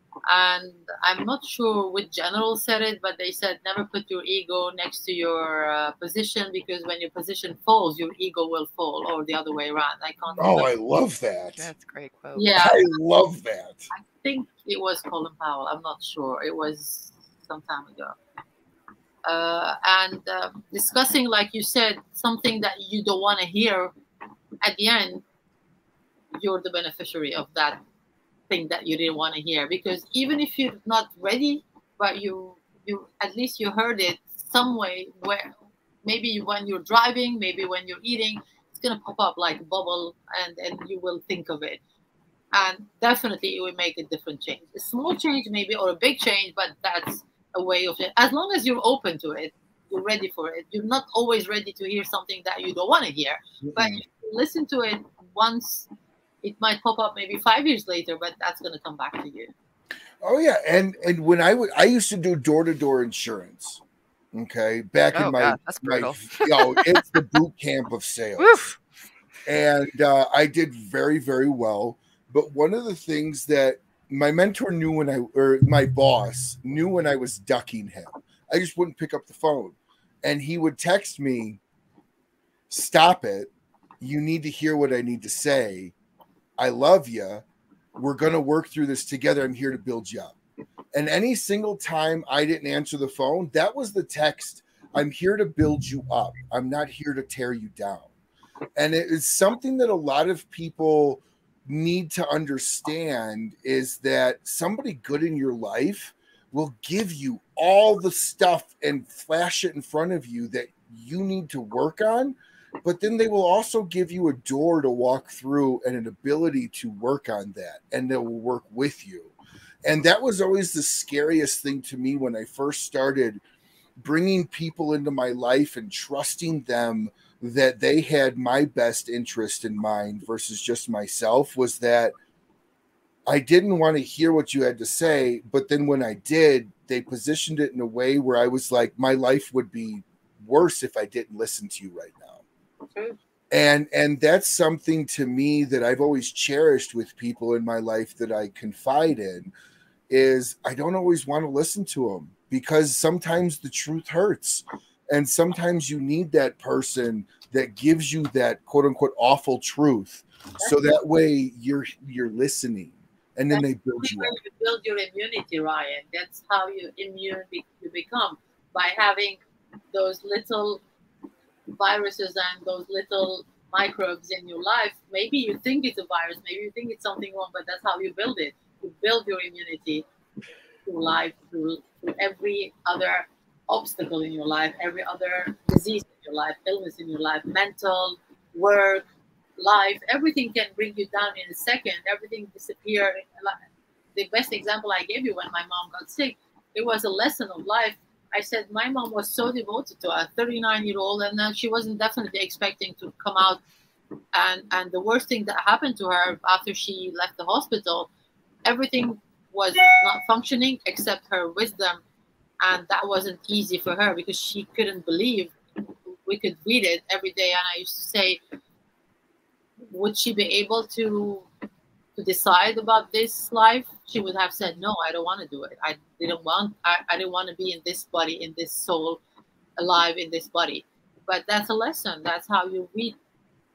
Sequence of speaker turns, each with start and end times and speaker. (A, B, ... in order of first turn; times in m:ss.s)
0:00.3-0:10.7 A
0:10.4-0:11.7 B
0:11.6-0:12.4 C
0:12.3-0:12.8 A
0:12.5-0:13.9 B
0:13.9-0:18.2 A
0:19.2-0:23.9 A
0:24.6-0:25.2 A
0:26.3-0:27.8 A
0:28.5-0:41.8 A
0:42.5-0:55.9 A
0:53.6-0:54.0 B
0:56.4-0:59.5 A
1:00.2-1:03.8 B
1:04.3-1:08.6 B
1:05.1-1:07.0 C
1:08.4-1:08.8 C
1:09.4-1:21.6 B
1:22.7-1:25.9 B
1:26.6-1:27.4 B
1:28.0-1:30.3 B
1:30.9-1:38.1 B
1:38.8-1:59.3 B
1:59.8-2:03.4 B
2:04.0-2:12.1 B
2:13.3-2:22.4 B
2:23.5-2:29.5 B
2:30.1-2:44.4 B
2:43.5-2:49.4 A
2:49.9-2:50.8 A
2:51.7-3:00.0 A
3:00.8-3:09.1 A
3:09.6-3:13.6 A
3:14.1-3:23.6 A
3:24.3-3:28.1 A
3:28.6-3:32.0 A
3:32.6-3:38.4 A
3:39.9-3:41.5 A
3:42.2-3:49.2 A
3:49.8-3:53.2 A